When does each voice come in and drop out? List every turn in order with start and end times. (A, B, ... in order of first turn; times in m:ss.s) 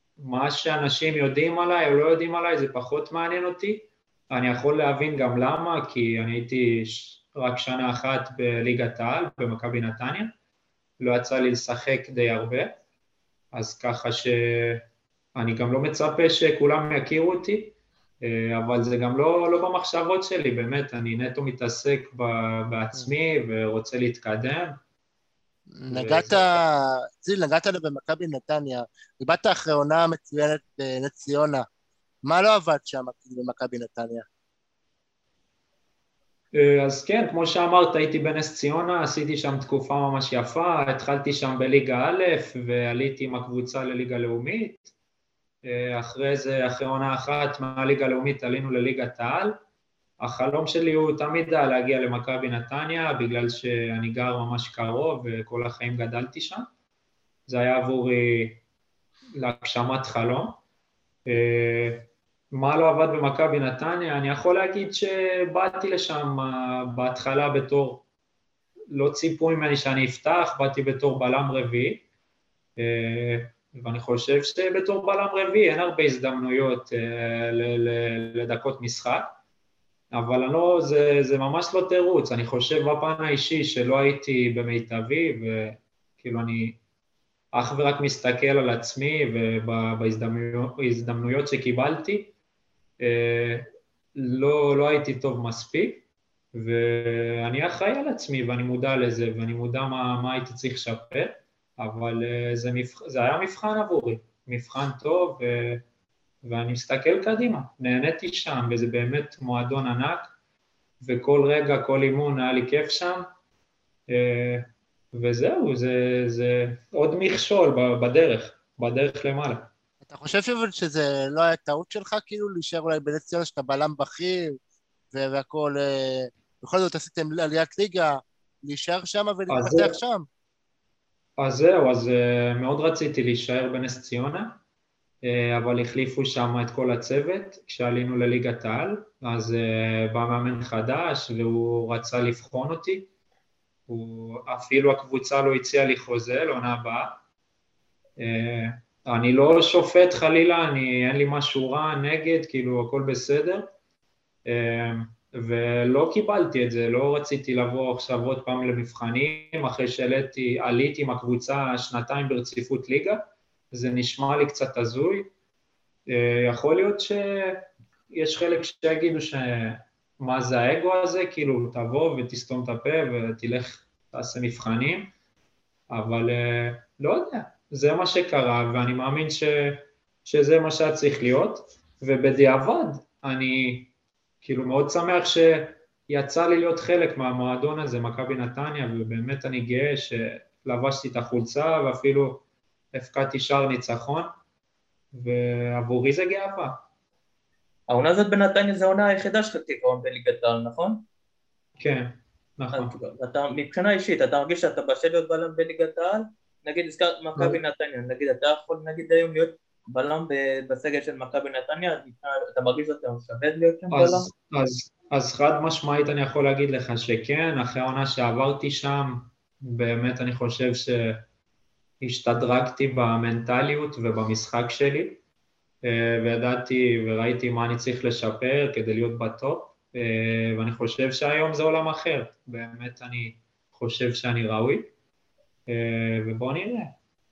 0:00.2-0:10.3 A
0:11.0-0:12.7 A
0:13.5-0:14.8 A
0:15.4-0:24.8 A
0:25.7-0:31.6 B
0:25.9-0:26.4 A
0:32.2-0:34.3 B
0:36.5-0:44.9 A
0:45.6-0:49.6 A
0:50.2-0:56.6 A
0:57.5-0:58.6 A
0:59.4-1:00.6 A
1:01.2-1:08.0 A
1:08.9-1:12.0 A
1:12.8-1:19.3 A
1:20.1-1:26.8 A
1:27.5-1:32.3 A
1:33.0-1:45.8 A
1:46.4-1:50.3 A
1:51.0-1:53.3 A
1:54.1-1:59.7 A
2:00.0-2:04.6 B
2:05.1-2:10.3 B
2:09.5-2:10.0 A
2:11.4-2:14.6 A
2:15.2-2:23.1 A
2:23.9-2:27.2 A
2:28.2-2:33.7 A
2:34.4-2:43.2 A
2:43.7-2:45.3 A
2:46.1-2:55.1 A
2:55.9-3:03.9 A
3:04.4-3:12.4 A
3:12.9-3:14.3 A
3:15.1-3:16.7 A
3:17.9-3:21.0 C
3:21.8-3:22.9 A
3:22.7-3:34.3 C
3:33.9-3:41.2 A
3:42.0-3:45.2 A
3:45.8-3:54.9 A
3:55.7-3:56.9 A